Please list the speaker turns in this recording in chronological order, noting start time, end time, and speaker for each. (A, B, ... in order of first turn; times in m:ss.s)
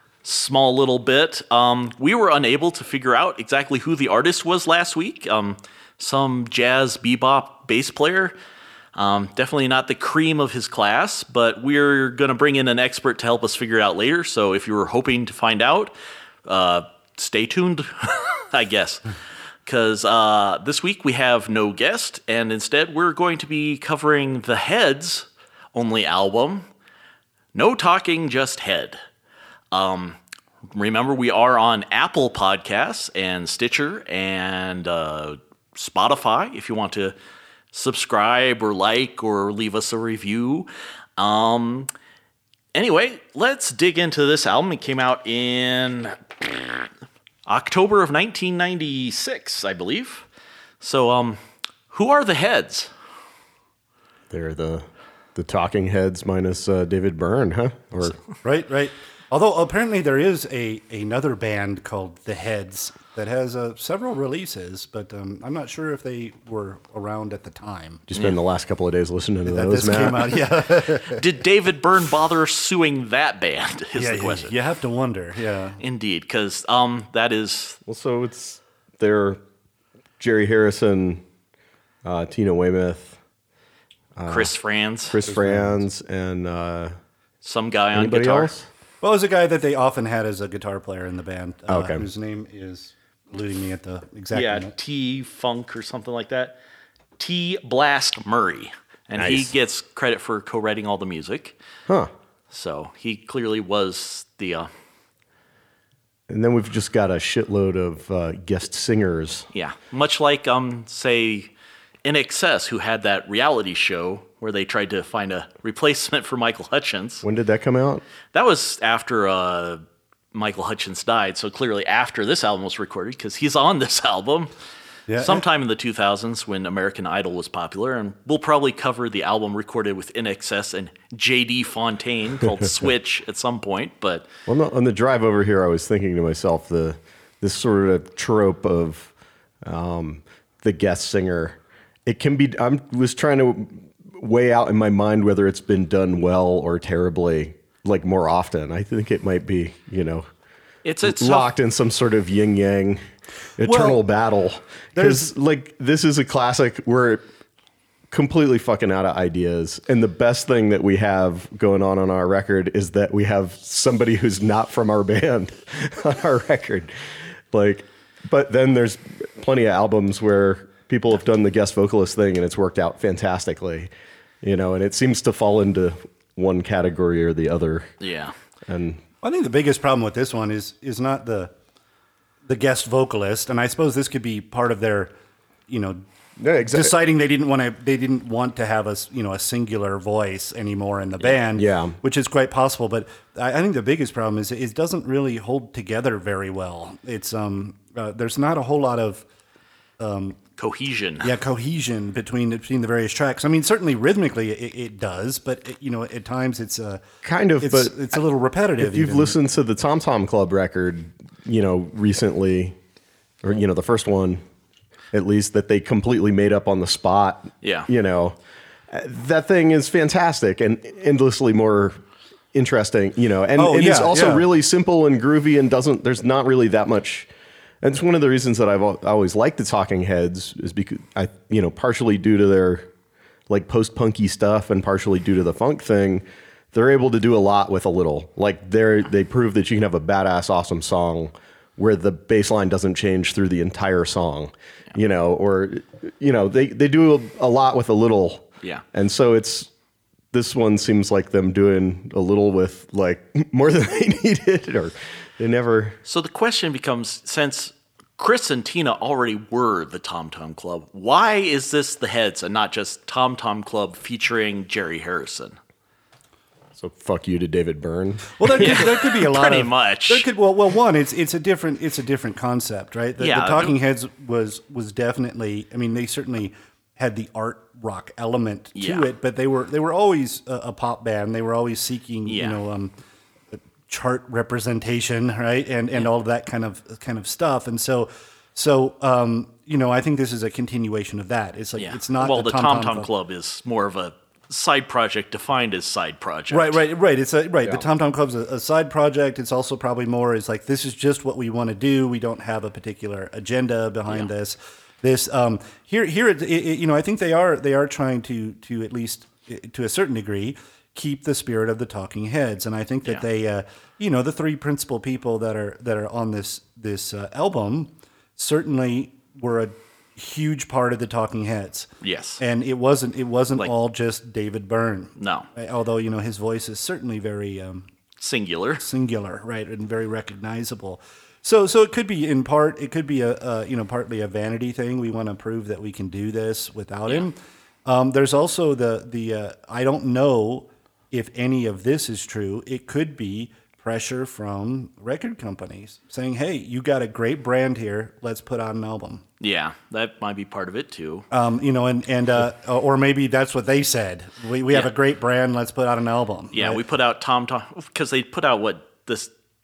0:00.2-0:08.3 A
0:08.9-0:15.9 A
0:16.5-0:19.1 A
0:19.7-0:26.7 A
0:27.5-0:29.0 A
0:29.7-0:30.2 A
0:30.7-0:37.2 A
0:37.7-0:41.9 A
0:42.8-0:46.9 A
0:47.5-0:50.2 A
0:50.8-0:51.4 A
0:51.9-0:52.9 A
0:54.3-0:58.2 B
0:58.4-1:08.0 C
1:08.1-1:10.4 B
1:09.5-1:11.2 C
1:11.1-1:14.5 A
1:13.9-1:15.8 C
1:15.8-1:17.8 A
1:17.8-1:19.4 B
1:20.2-1:21.2 B
1:22.0-1:23.2 B
1:24.2-1:24.5 B
1:24.3-1:25.2 A
1:25.1-1:26.9 B
1:25.2-1:25.8 C
1:27.4-1:28.5 A
1:27.9-1:28.7 B
1:29.0-1:34.7 C
1:31.7-1:32.1 B
1:34.3-1:36.6 A
1:37.2-1:41.6 A
1:39.2-1:39.5 B
1:42.5-1:44.7 A
1:46.3-1:49.5 B
1:49.5-1:51.5 A
1:52.0-1:57.2 A
1:57.2-1:58.0 B
1:58.3-1:59.8 A
2:00.3-2:04.5 A
2:05.1-2:05.4 C
2:05.2-2:14.3 A
2:14.5-2:19.1 B
2:19.6-2:30.3 B
2:30.8-2:31.5 A
2:31.0-2:33.0 B
2:33.6-2:37.2 B
2:33.6-2:34.0 C
2:34.9-2:35.3 C
2:38.1-2:46.9 B
2:47.5-2:53.9 B
2:54.4-2:57.9 B
2:58.0-2:58.3 A
2:58.7-2:59.0 B
2:59.2-3:01.5 C
3:02.5-3:05.1 C
3:05.7-3:06.0 C
3:06.4-3:07.0 B
3:06.6-3:19.2 C
3:11.5-3:12.0 B
3:20.0-3:20.4 C
3:20.6-3:21.3 A
3:21.2-3:27.0 C
3:27.2-3:28.1 B
3:27.6-3:29.4 C
3:28.8-3:32.8 B
3:33.4-3:34.4 B
3:35.1-3:38.4 B
3:37.6-3:37.9 A
3:38.9-3:42.0 B
3:42.5-3:47.3 B
3:43.6-3:44.4 C
3:47.8-3:52.9 B
3:53.5-4:09.7 B
4:10.3-4:16.0 B
4:16.1-4:25.6 A
4:26.8-4:28.8 B
4:28.4-4:42.9 C
4:28.6-4:30.3 A
4:33.2-4:33.8 A
4:38.8-4:39.1 A
4:42.3-4:42.6 A
4:43.5-4:53.1 C
4:51.8-4:56.8 A
4:56.5-5:27.9 C
5:22.0-5:22.4 A
5:25.2-5:25.5 A
5:28.2-5:28.8 A
5:28.8-5:37.4 C
5:37.9-5:49.2 C
5:49.4-5:51.3 A
5:51.3-5:56.8 C
5:56.5-5:59.3 A